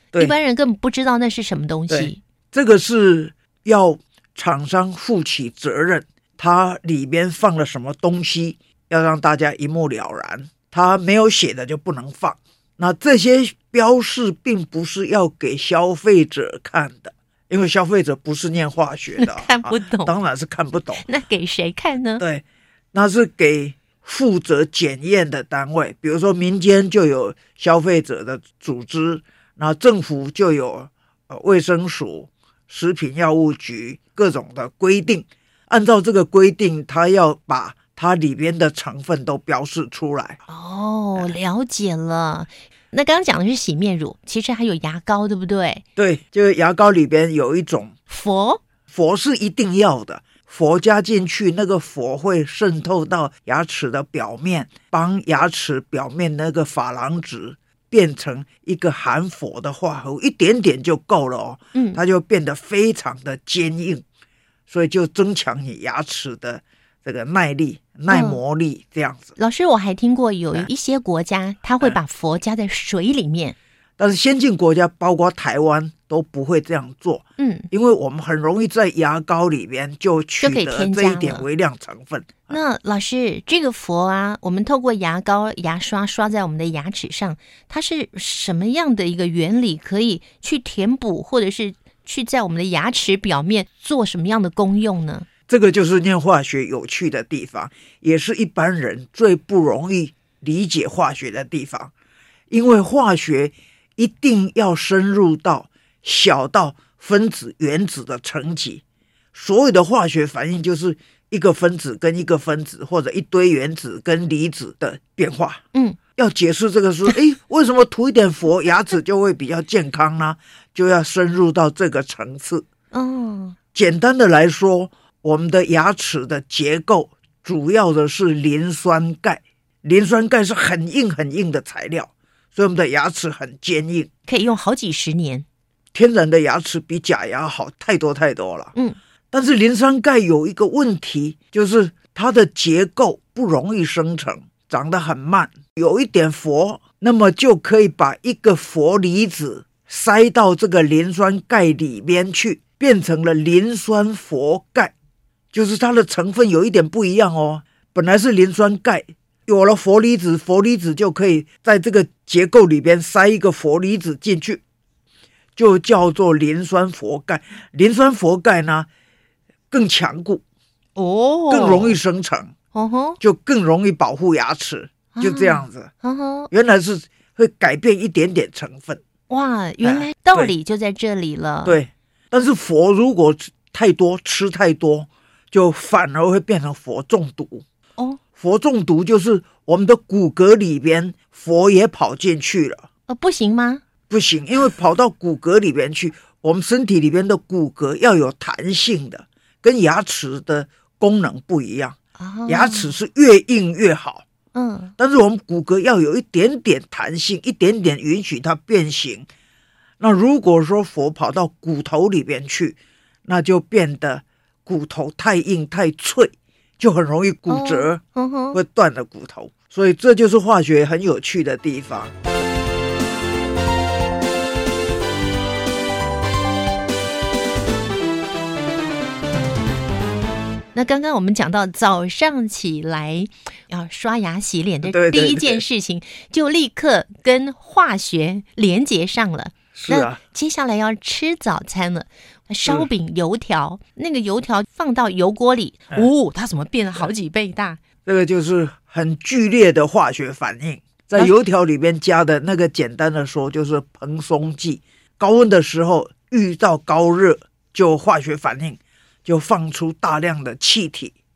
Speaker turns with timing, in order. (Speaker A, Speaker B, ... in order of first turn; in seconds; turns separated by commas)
Speaker A: 0.1-2.2, Speaker B: 1.9-21.0, Speaker A: 19.2-20.1, Speaker A: 21.0-22.2, Speaker B: 22.2-40.4, Speaker A: 40.5-45.8, Speaker B: 46.0-47.9, Speaker A: 48.1-48.6, Speaker B: 48.9-64.0, Speaker A: 61.7-62.0, Speaker B: 64.7-69.3, Speaker A: 68.1-68.4, Speaker A: 69.4-73.5, Speaker B: 74.0-82.6, Speaker A: 77.4-77.7, Speaker A: 80.4-81.5, Speaker A: 82.5-95.3, Speaker B: 95.5-101.9, Speaker B: 102.5-108.8, Speaker B: 109.3-115.6, Speaker B: 116.2-122.6, Speaker A: 122.9-123.6, Speaker B: 123.7-134.1, Speaker A: 134.3-135.4, Speaker B: 135.9-138.7, Speaker B: 139.3-154.9, Speaker B: 155.5-164.6, Speaker B: 165.6-168.9, Speaker B: 169.7-170.4, Speaker A: 170.9-172.0, Speaker B: 171.5-172.5, Speaker A: 172.7-173.2, Speaker B: 173.2-175.9, Speaker A: 175.1-176.5, Speaker B: 176.5-179.0, Speaker A: 179.3-181.8, Speaker B: 179.8-180.5, Speaker B: 181.6-187.6, Speaker B: 188.3-192.9, Speaker A: 193.1-193.8, Speaker B: 194.1-204.2, Speaker A: 202.2-202.9, Speaker A: 204.5-204.9, Speaker B: 205.0-209.3, Speaker B: 210.0-218.0, Speaker A: 217.5-218.6, Speaker B: 218.5-222.1, Speaker A: 230.7-247.8, Speaker B: 234.8-235.6, Speaker B: 239.7-240.2, Speaker B: 248.1-261.1